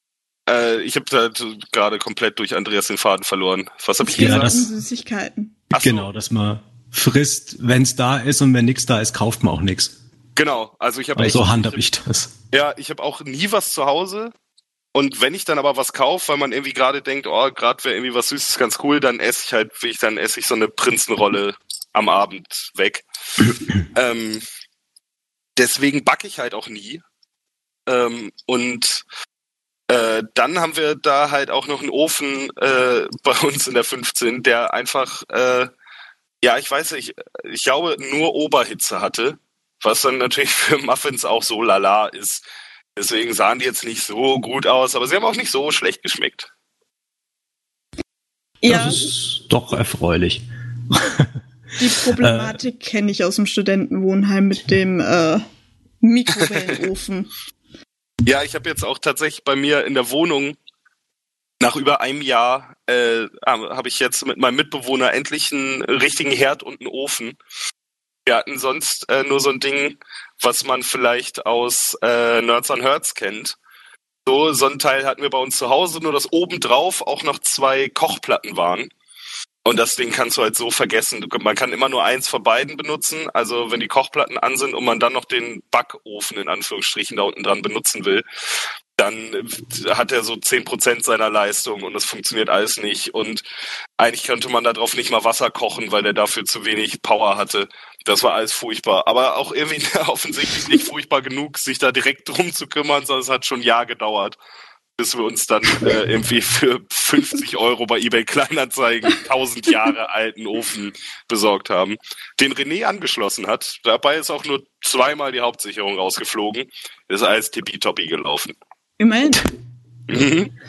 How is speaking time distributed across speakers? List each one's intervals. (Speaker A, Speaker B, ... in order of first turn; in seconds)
Speaker A: 0.5-4.5, 5.7-6.1, 10.4-11.8, 12.5-14.3, 14.9-23.1, 23.9-24.4, 25.6-27.0, 27.9-29.0, 29.9-35.7, 36.4-42.5, 43.0-46.5, 58.2-60.6, 61.6-67.4, 68.3-73.6, 74.3-78.9, 79.7-88.2, 89.0-93.4, 94.0-104.4, 105.0-118.5, 120.1-120.5
Speaker B: 4.0-5.5, 48.6-49.0, 51.8-55.4, 56.0-57.3, 119.0-119.5
Speaker C: 4.2-4.7, 5.8-10.0, 11.2-12.3, 48.7-51.4, 52.2-52.6